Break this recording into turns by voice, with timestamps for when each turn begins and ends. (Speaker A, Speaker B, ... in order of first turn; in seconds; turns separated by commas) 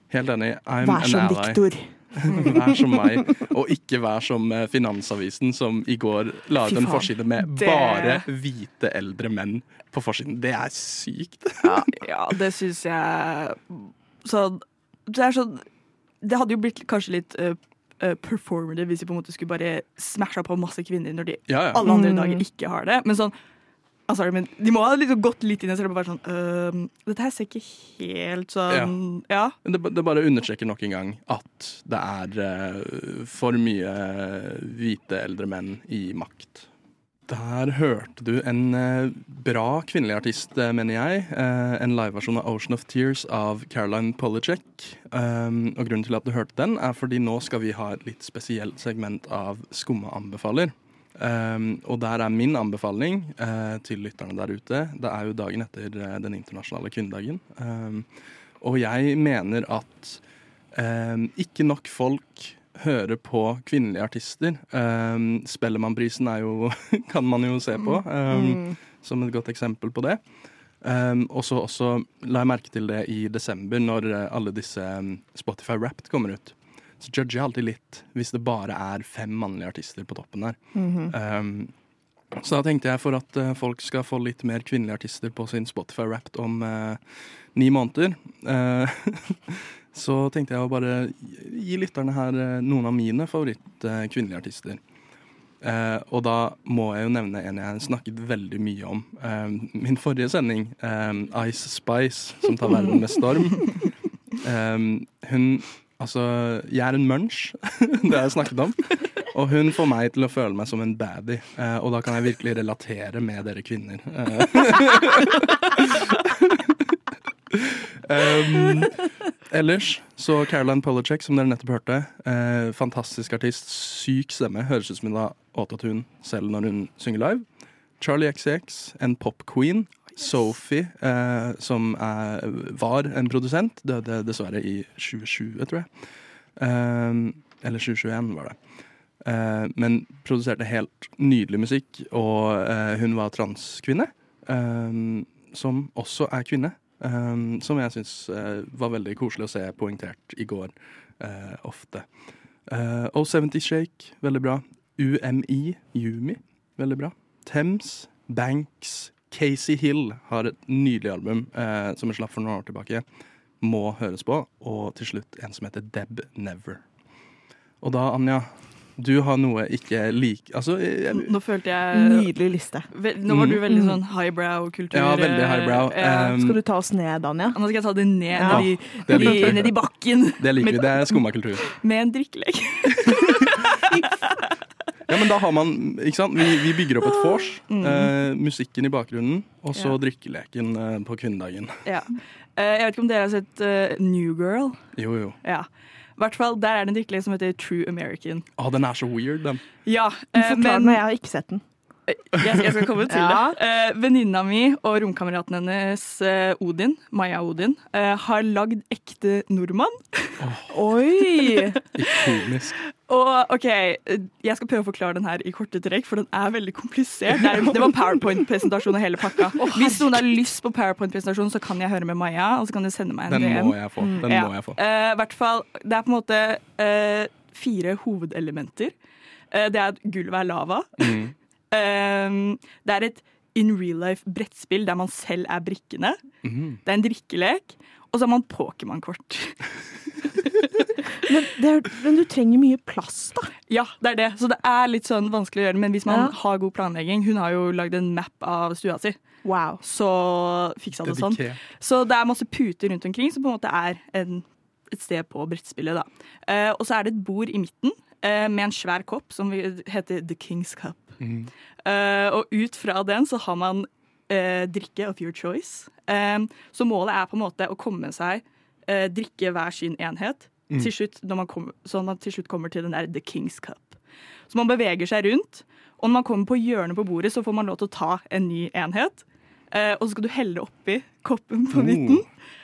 Speaker A: 0.1-11.8, Speaker B: 0.8-3.1, Speaker C: 6.7-8.3, Speaker C: 11.6-15.7, Speaker C: 16.2-23.3, Speaker A: 21.5-21.8, Speaker B: 21.8-22.4, Speaker C: 24.1-29.5, Speaker A: 28.7-28.9, Speaker A: 29.6-36.7, Speaker A: 37.3-58.1, Speaker A: 58.6-60.2, Speaker A: 60.7-70.2, Speaker B: 68.3-68.7, Speaker A: 70.8-80.5, Speaker B: 80.8-81.1, Speaker A: 81.1-81.7, Speaker A: 82.4-87.0, Speaker A: 87.5-94.8, Speaker A: 95.6-117.0, Speaker A: 117.5-127.4, Speaker A: 128.0-135.9, Speaker A: 136.6-138.6, Speaker A: 139.2-152.1, Speaker A: 152.7-163.0, Speaker A: 163.6-166.8, Speaker A: 167.8-171.3, Speaker C: 171.1-172.3, Speaker B: 171.9-172.9, Speaker C: 172.9-176.3, Speaker A: 173.3-173.7, Speaker A: 174.9-176.6, Speaker B: 176.3-177.6, Speaker C: 177.5-184.4, Speaker B: 178.3-179.8, Speaker A: 178.4-179.7, Speaker A: 180.4-181.6, Speaker A: 185.1-191.8, Speaker C: 187.7-188.1, Speaker C: 191.8-194.8, Speaker A: 194.9-195.4, Speaker C: 195.4-198.4, Speaker A: 198.6-199.6, Speaker C: 199.8-201.0, Speaker B: 200.3-201.6, Speaker C: 202.1-210.4, Speaker B: 203.1-203.6, Speaker A: 210.4-210.7, Speaker B: 210.7-211.8, Speaker A: 211.9-212.8, Speaker C: 213.1-228.9, Speaker B: 219.6-220.0, Speaker A: 223.3-224.8, Speaker C: 229.5-231.2, Speaker A: 231.0-231.3, Speaker C: 231.7-236.2, Speaker A: 236.4-236.8, Speaker C: 236.8-240.6, Speaker B: 241.2-243.5, Speaker C: 243.7-249.2, Speaker B: 246.1-246.3, Speaker B: 249.4-249.8, Speaker C: 249.8-261.1, Speaker A: 251.0-251.6, Speaker A: 261.2-261.5, Speaker C: 261.8-274.0, Speaker C: 274.5-282.3, Speaker A: 281.7-282.2